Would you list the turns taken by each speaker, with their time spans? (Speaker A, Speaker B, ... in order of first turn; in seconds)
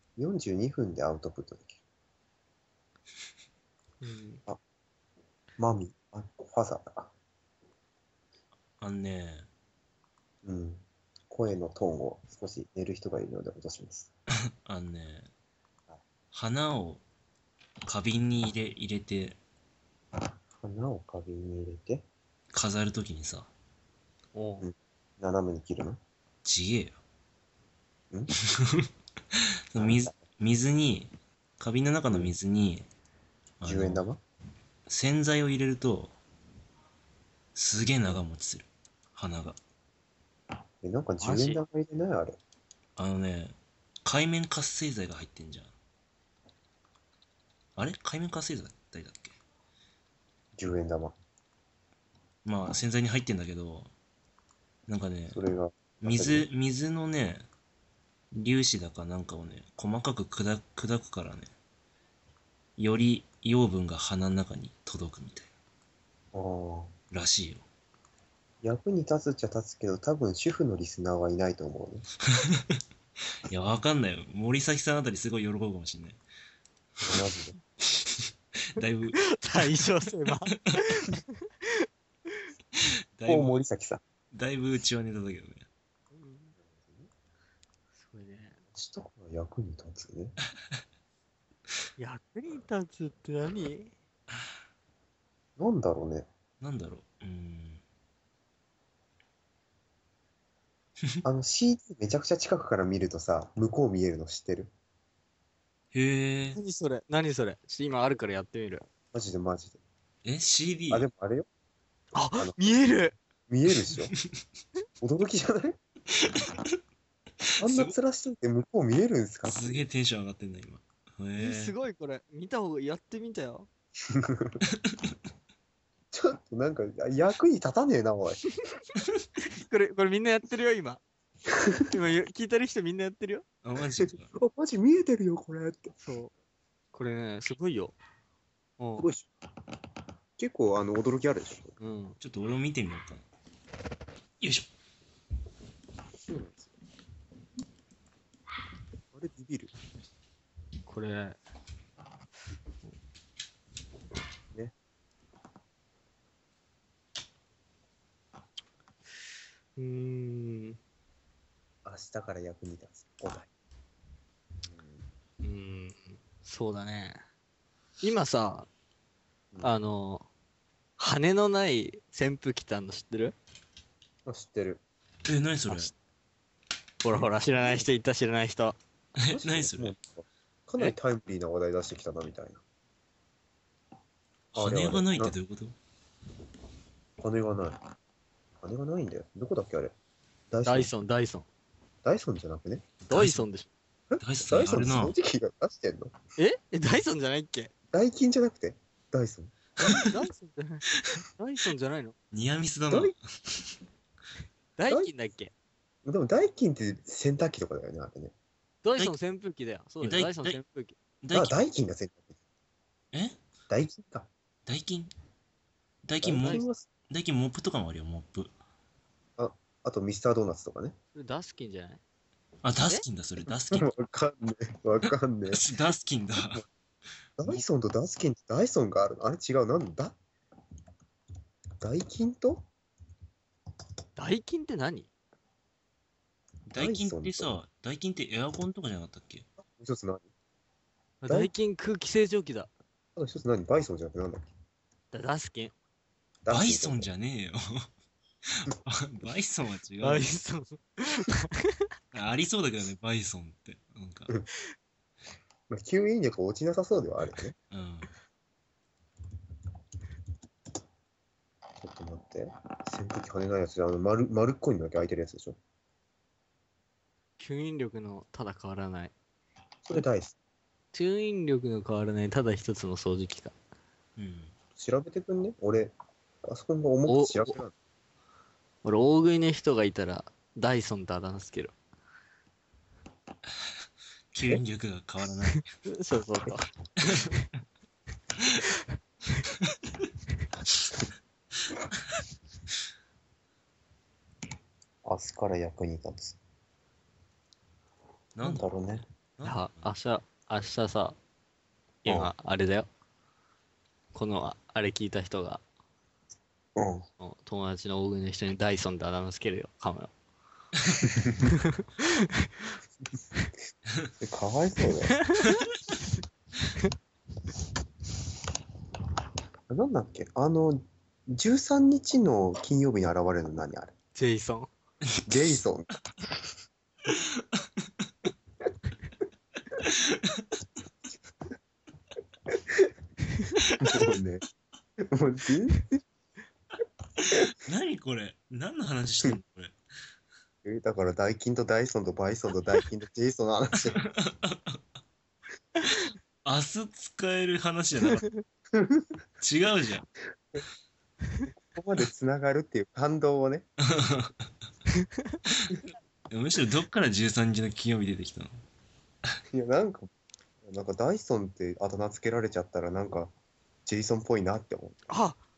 Speaker A: 0.2-1.8, 5.6-7.1, 10.4-14.1, 20.5-22.1, 24.6-26.0, 29.8-30.2, 33.6-34.2, 40.8-42.4, 50.5-51.1, 55.3-56.5, 66.3-66.9, 68.6-72.0, 77.1-77.6, 83.3-84.0, 86.5-87.1, 88.7-90.3, 95.6-96.3, 101.2-104.7, 109.1-109.8, 110.9-111.5, 112.3-112.7, 113.5-114.1, 115.0-115.8, 117.6-119.8, 124.1-124.6, 126.1-128.4, 131.6-131.9, 133.9-135.9, 139.0-139.3, 140.4-141.8, 146.2-146.7, 149.1-149.7, 161.8-163.5, 164.7-165.0, 174.2-174.8, 179.3-182.6, 184.6-185.3, 187.2-187.8, 188.6-189.9, 190.5-190.9, 192.0-192.9, 194.1-196.1, 197.9-199.6, 206.0-208.3, 211.3-212.3, 213.7-214.3, 216.2-216.9, 219.4-220.9, 223.7-225.6, 227.4-230.2, 231.8-232.7, 236.8-237.6, 239.6-240.3, 243.2-244.5, 246.4-247.1, 255.7-257.5, 261.8-265.6, 269.8-270.4, 274.7-277.7, 295.0-296.4, 298.4-299.0, 302.1-302.3, 306.8-307.1, 311.0-311.5, 314.2-315.2, 319.7-323.9, 325.3-326.4, 332.5-332.9, 333.8-334.4, 335.0-336.0, 340.6-344.0, 348.7-349.2, 351.6-353.7, 359.5-360.1, 360.6-363.3, 363.9-365.0
Speaker B: 4.0-4.4, 24.3-24.6, 41.2-41.6, 79.2-82.5, 86.2-86.5, 88.0-88.6, 92.0-93.9, 106.5-108.8, 112.1-113.2, 121.4-123.7, 129.4-131.0, 131.9-133.4, 136.0-136.3, 136.9-137.9, 138.8-139.1, 141.8-142.2, 150.9-151.4, 159.8-160.8, 165.4-167.2, 168.0-168.7, 169.6-170.3, 171.0-173.3, 177.0-178.8, 190.7-191.5, 193.1-193.7, 196.4-197.7, 199.8-200.8, 201.4-202.1, 204.8-205.5, 208.8-211.0, 221.1-222.0, 234.2-235.1, 241.2-242.7, 245.1-245.7, 250.0-251.8, 267.4-269.1, 270.9-273.5, 277.1-277.5, 278.8-281.7, 285.5-287.4, 299.4-301.2, 302.0-302.9, 304.1-305.6, 307.2-310.1, 311.4-312.7, 315.1-315.6, 324.1-324.7, 348.1-348.4, 354.9-355.4, 365.1-365.4
Speaker C: 8.8-9.5, 14.6-15.3, 16.3-17.0, 17.8-19.4, 22.5-23.5, 26.4-27.0, 28.6-32.9, 33.6-34.0, 34.9-36.1, 37.5-39.6, 43.0-45.7, 47.8-49.3, 52.4-53.9, 54.9-55.4, 56.0-57.5, 58.3-61.5, 62.8-65.5, 67.1-67.6, 72.3-72.8, 73.5-76.2, 77.9-79.2, 82.8-83.6, 84.3-85.7, 96.6-97.8, 105.9-106.6, 110.2-111.1, 116.1-116.7, 117.5-117.9, 119.5-121.7, 124.7-125.0, 133.6-134.3, 142.2-143.2, 144.4-144.7, 175.2-175.9, 179.2-179.9, 184.5-185.7, 193.0-193.5, 194.2-195.1, 202.3-203.7, 210.0-210.6, 211.2-211.6, 213.1-213.4, 214.7-215.1, 216.0-218.5, 222.6-223.9, 225.5-226.6, 236.7-239.4, 246.5-247.9, 248.5-250.3, 252.1-254.3, 257.7-258.1, 274.2-274.5, 284.3-285.7, 287.1-287.3, 298.4-299.9, 327.1-327.6, 329.8-330.4, 333.6-334.0, 337.2-339.7, 343.8-344.8, 346.4-348.2, 349.4-350.1, 353.8-354.4, 355.5-355.8, 356.3-358.5